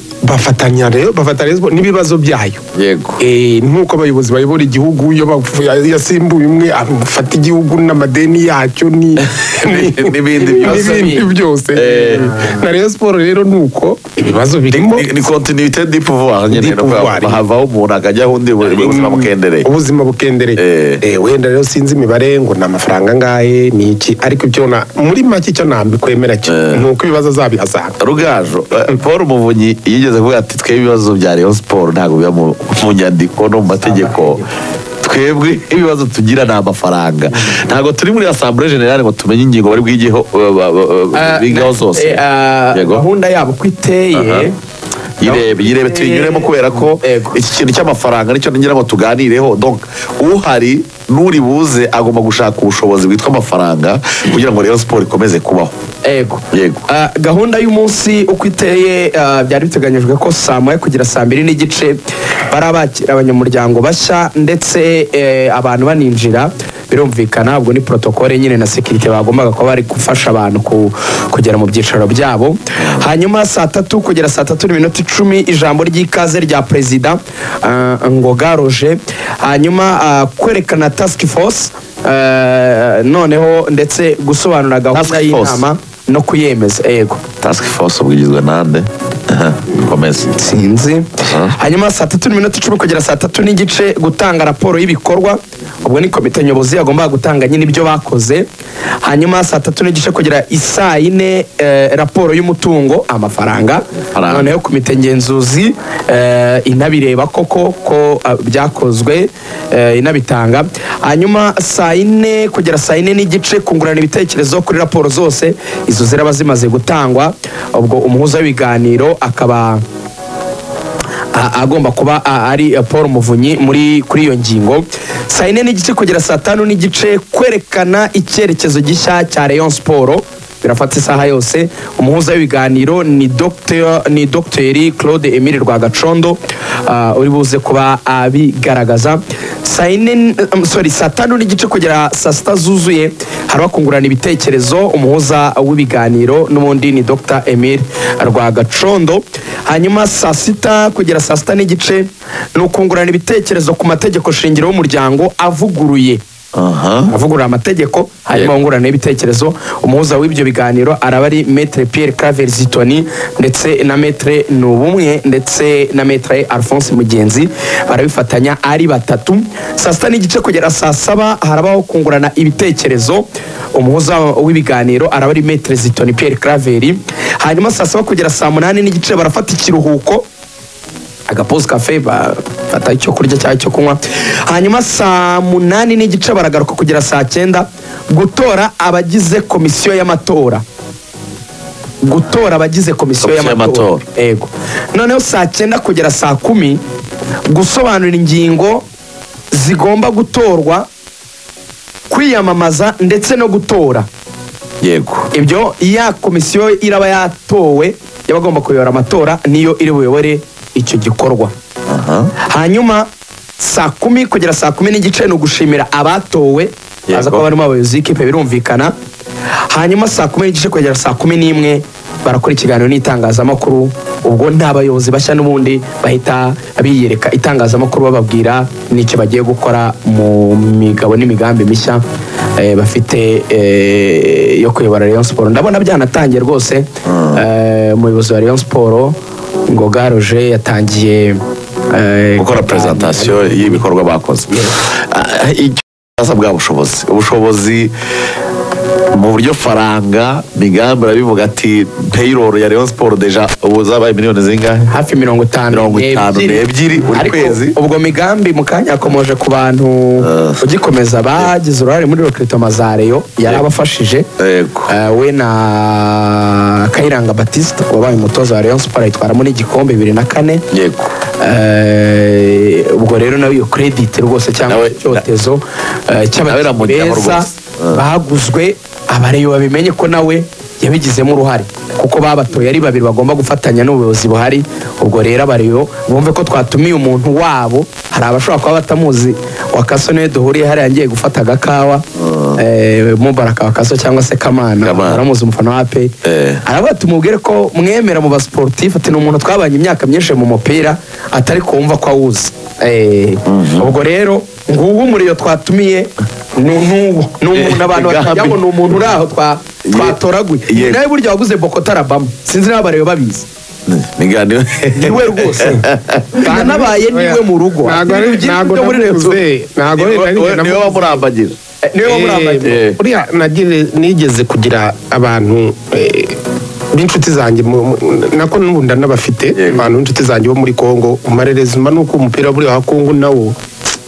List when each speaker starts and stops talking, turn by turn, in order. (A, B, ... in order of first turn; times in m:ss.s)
0:00.2-0:02.6 A
0:02.8-0:03.2 B
0:03.2-0:15.1 A
0:09.2-0:12.3 B
0:10.4-0:11.3 C
0:12.0-0:12.4 C
0:14.7-0:19.7 B
0:16.5-0:17.4 A
0:18.6-0:28.0 A
0:20.6-0:21.0 B
0:26.4-0:26.8 B
0:28.0-0:34.4 B
0:33.8-0:34.4 C
0:35.0-0:42.2 B
0:37.3-0:37.6 C
0:41.1-0:44.5 C
0:42.7-0:43.0 B
0:44.1-0:44.5 B
0:45.2-0:55.7 B
0:45.2-0:47.4 C
0:56.0-1:27.2 C
0:56.5-0:56.8 B
1:12.8-1:13.0 B
1:24.9-1:25.6 B
1:27.4-1:30.3 B
1:30.3-1:38.4 C
1:31.3-1:31.6 B
1:39.0-1:59.8 C
1:44.1-1:44.5 B
2:01.3-2:36.2 C
2:36.5-2:37.1 B
2:37.1-3:00.2 C
3:01.3-3:10.6 C
3:12.0-3:16.8 C
3:13.2-3:14.0 B
3:17.5-3:18.9 C
3:19.5-3:20.9 C
3:22.1-3:24.1 C
3:24.8-3:25.3 B
3:25.3-3:31.5 C
3:31.9-3:32.3 B
3:32.5-3:33.1 C
3:33.6-3:38.9 C
3:37.1-3:37.4 B
3:39.7-3:52.0 C
3:52.6-3:59.2 C
3:57.0-3:57.4 B
3:59.7-4:01.4 C
4:01.9-4:03.8 C
4:02.4-4:07.9 B
4:09.1-4:14.9 B
4:14.9-4:24.3 C
4:15.7-4:17.7 B
4:20.2-4:20.6 B
4:24.4-4:24.9 B
4:24.9-4:30.6 C
4:30.7-4:31.1 B
4:31.4-4:52.0 C
4:34.7-4:35.2 B
4:36.4-4:38.0 B
4:52.2-4:52.6 B
4:52.6-4:56.1 C
4:54.8-4:55.2 B
4:56.2-4:56.6 B
4:56.6-5:13.5 C
5:03.4-5:03.9 B
5:07.5-5:08.6 B
5:09.8-5:10.2 B
5:10.7-5:11.0 B
5:13.9-5:16.5 B
5:15.0-5:15.8 C
5:16.4-5:19.4 C
5:16.4-5:21.2 A
5:19.9-5:21.5 B
5:21.9-5:22.8 C
5:22.0-5:26.3 A
5:22.6-5:23.0 B
5:26.9-5:33.5 A
5:29.5-5:29.9 B